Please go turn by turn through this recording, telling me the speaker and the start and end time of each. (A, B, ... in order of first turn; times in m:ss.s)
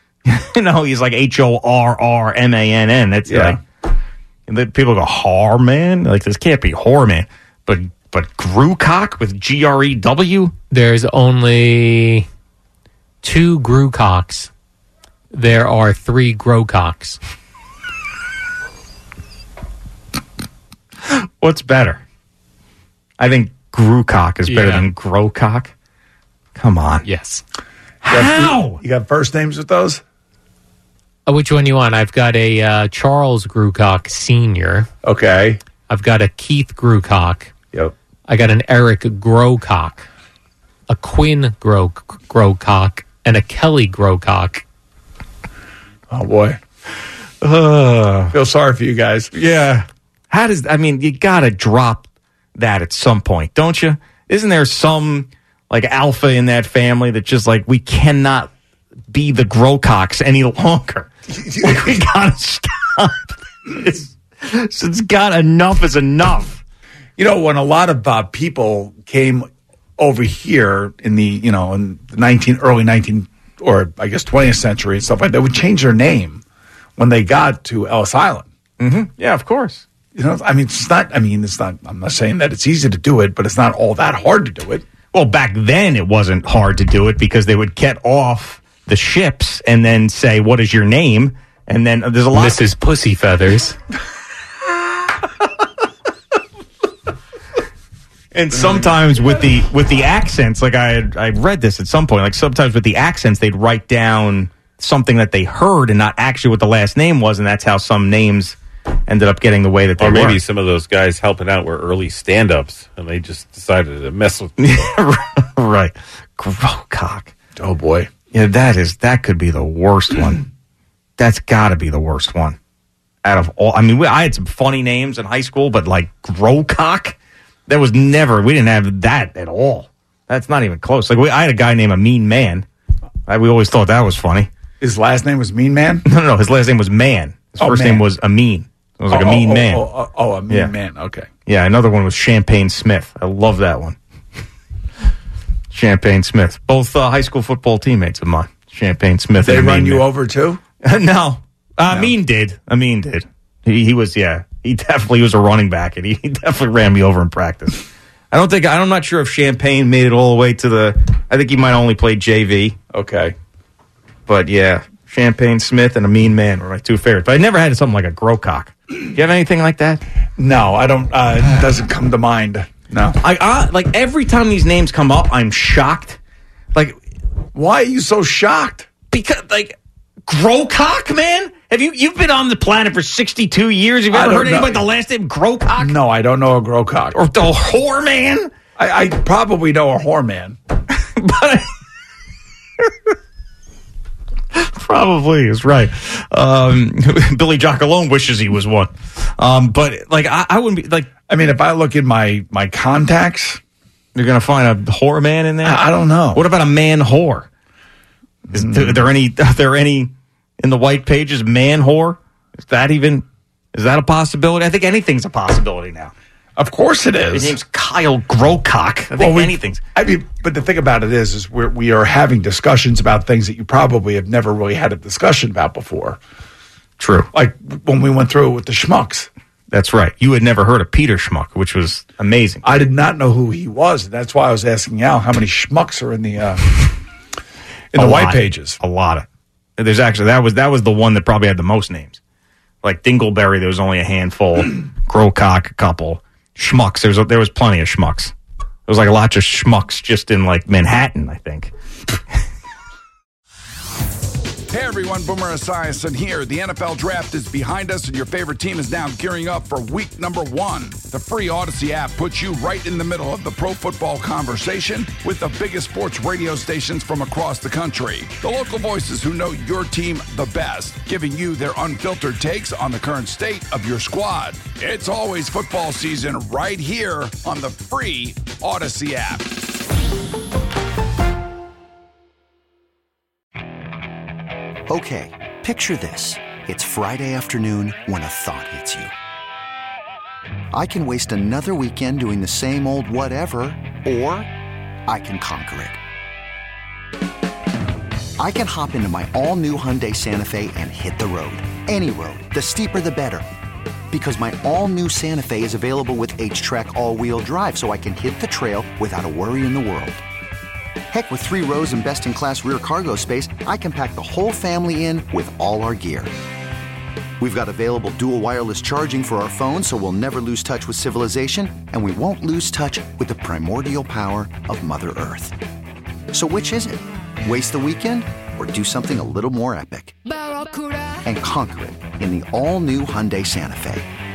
0:00.3-0:03.6 A
0:03.3-0:03.6 B
0:04.5-0:10.6 A
0:10.7-0:12.3 C
0:13.2-0:14.5 C
0:15.3-0:17.2 C
0:21.1-0:22.0 A
0:23.2-0:25.7 A
0:24.5-0:24.9 C
0:26.6-0:27.1 A
0:27.0-0:27.4 C
0:28.0-0:28.8 A
0:28.1-0:30.0 B
0:31.3-0:34.9 C
0:35.0-0:35.6 B
0:35.9-0:37.5 C
0:38.3-0:40.1 C
0:40.9-0:44.6 C
0:46.1-0:46.6 B
0:47.4-0:48.3 A
0:48.3-0:49.3 B
0:49.3-0:52.0 A
0:52.6-0:58.5 A
0:59.1-1:06.6 A
1:01.3-1:02.0 B
1:07.2-1:16.4 B
1:17.0-1:18.5 B
1:18.8-1:19.8 A
1:20.2-1:24.9 B
1:25.1-1:32.7 A
1:32.3-1:33.8 C
1:38.3-1:48.6 A
1:49.1-1:50.4 A
1:50.0-1:54.9 D
1:54.6-1:57.3 A
1:57.6-1:58.1 B
1:58.3-2:00.5 A
2:01.2-2:02.6 A
2:03.2-2:07.2 A
2:07.7-2:12.7 A
2:13.3-2:14.5 A
2:14.8-2:16.1 B
2:16.0-2:19.9 A
2:17.6-2:18.1 B
2:19.1-2:21.3 B
2:21.5-2:24.0 A
2:25.7-2:30.1 A
2:29.4-2:30.6 B
2:30.8-2:42.8 A
2:42.9-2:43.4 B
2:44.3-2:50.0 A
2:50.4-2:53.2 B
2:53.2-2:56.2 A
2:56.7-2:57.0 A
2:57.5-2:58.9 B
2:59.1-3:06.0 A
3:04.1-3:04.8 B
3:05.8-3:07.2 B
3:07.1-3:08.5 A
3:08.8-3:10.6 B
3:10.9-3:11.7 A
3:14.5-3:21.1 A
3:21.3-3:23.6 B
3:24.2-3:27.5 A
3:25.6-3:26.4 B
3:28.5-3:29.0 B
3:28.5-3:36.1 A
3:36.6-3:37.6 B
3:37.3-3:39.8 A
3:39.1-3:46.2 B
3:47.0-3:47.3 A
3:47.3-3:49.3 B
3:49.7-3:52.8 A
3:52.6-3:56.7 B
3:57.9-3:58.8 B
3:58.0-3:59.3 A
3:59.8-4:02.2 A
4:02.8-4:08.3 A
4:08.9-4:11.7 A
4:14.7-4:39.5 B
4:44.9-4:49.1 E
4:50.7-4:54.5 E
4:55.1-4:56.0 E
4:58.4-5:03.4 E
5:04.1-5:10.2 E
5:11.1-5:16.3 E
5:17.4-5:25.6 E
5:26.3-5:30.2 E
5:31.2-5:34.1 E